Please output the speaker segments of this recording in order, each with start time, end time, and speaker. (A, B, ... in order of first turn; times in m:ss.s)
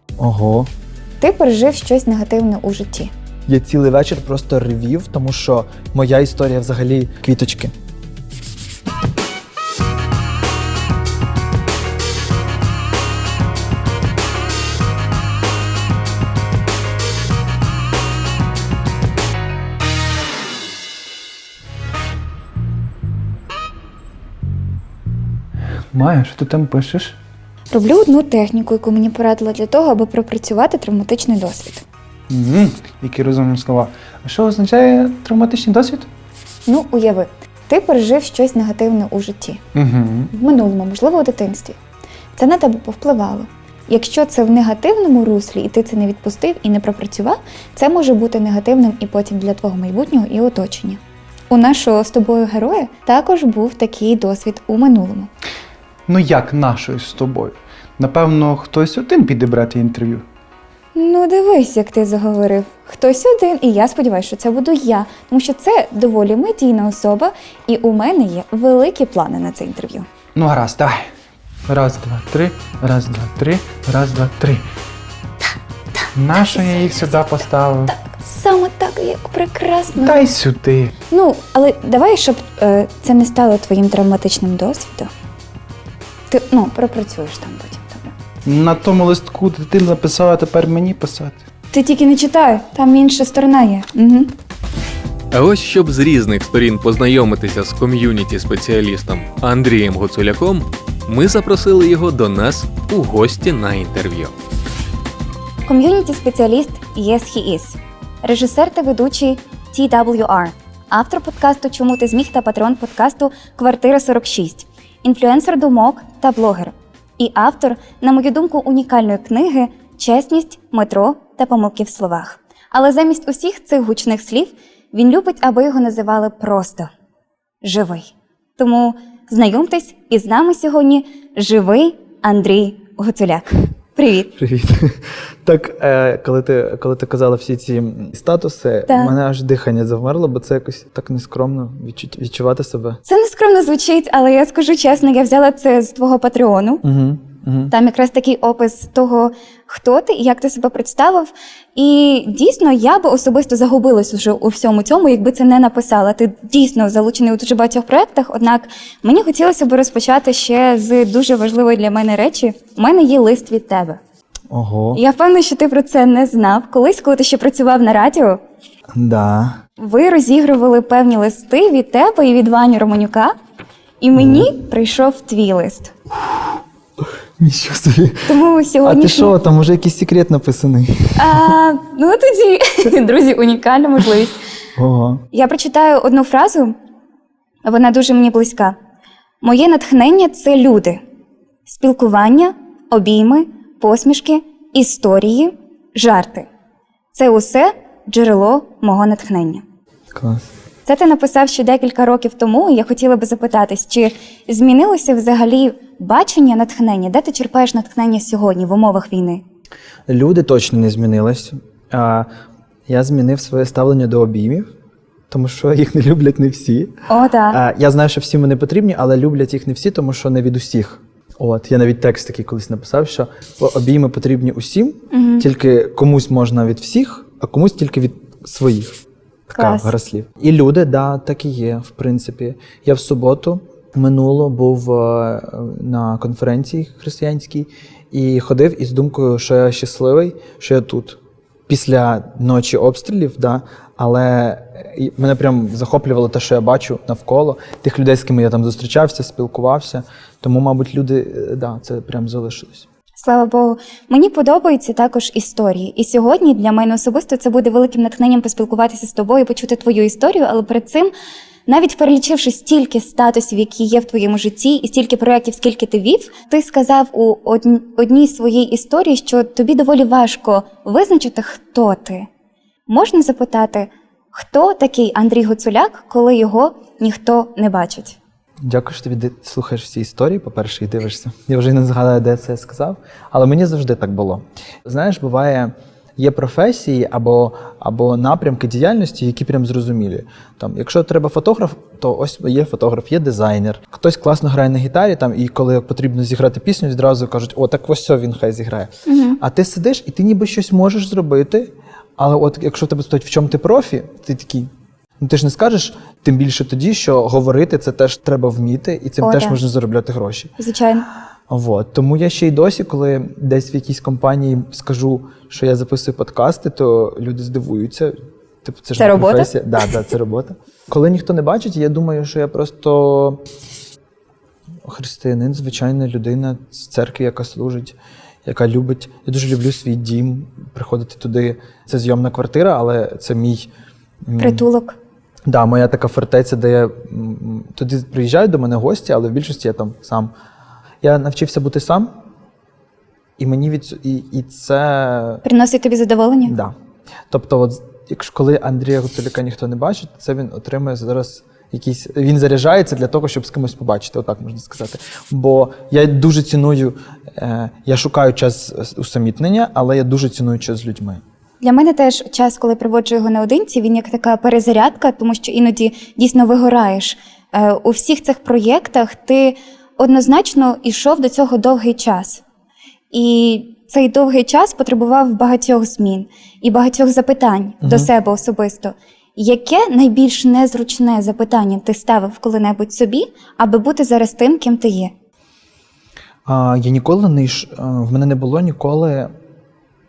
0:00.2-0:00.7 A
0:01.2-0:03.1 B
0:03.5-0:07.7 A
0:25.9-0:27.2 C
0:27.7-0:31.8 B
0:32.3-0:36.1 C
0:36.7-0:39.6 B
0:39.7-0:40.3 C
0:40.3-0:41.8 B
0:42.3-0:55.3 B
0:56.1-1:00.2 C
1:00.9-1:10.1 B
1:10.3-1:11.1 C
1:11.7-1:14.6 C
1:16.1-1:18.0 C
1:17.9-1:20.2 B
1:19.9-1:21.0 C
1:21.1-1:25.1 B
1:26.3-1:28.1 B
1:28.4-1:31.4 C
1:31.7-1:34.3 B
1:35.3-1:44.3 D
1:45.6-2:06.9 B
2:07.6-2:14.3 B
2:14.4-2:23.0 A
2:18.9-2:19.1 B
2:23.0-2:26.8 B
2:26.8-2:27.7 A
2:27.7-2:44.0 B
2:44.5-2:45.0 A
2:44.9-2:48.4 B
2:48.9-2:49.6 A
2:49.8-2:53.3 B
2:54.0-2:55.9 B
2:54.1-2:54.5 A
2:57.0-2:58.3 A
2:58.3-2:59.3 B
2:58.8-3:01.6 A
3:01.2-3:04.4 B
3:04.8-3:05.2 A
3:05.3-3:06.7 B
3:07.6-3:08.8 B
3:09.4-3:11.0 B
3:11.6-3:16.5 B
3:17.1-3:19.6 B
3:20.1-3:20.5 A
3:20.8-3:29.4 B
3:30.1-3:32.3 A
3:32.9-3:34.7 A
3:35.3-3:36.9 A
3:37.1-3:37.6 B
3:37.5-4:12.8 A
3:45.1-3:45.4 B
3:49.6-3:49.9 B
4:13.2-4:21.1 B
4:21.7-4:32.3 B
4:32.9-4:38.2 B
4:38.6-5:04.7 A
4:59.0-4:59.4 B
5:05.2-5:10.5 A
5:09.2-5:09.6 B
5:10.6-5:11.0 B
5:11.5-5:23.4 A
5:19.0-5:19.5 B
5:24.8-5:33.7 A
5:34.2-5:34.6 A
5:34.4-5:35.0 B
5:35.4-5:40.3 A
5:41.0-5:42.1 A
5:43.4-5:45.4 A
5:45.4-5:46.5 B
5:46.4-5:46.7 A
5:47.3-6:01.2 A
6:01.6-6:12.4 B
6:13.1-6:25.1 B
6:17.8-6:18.1 A
6:26.4-6:29.3 A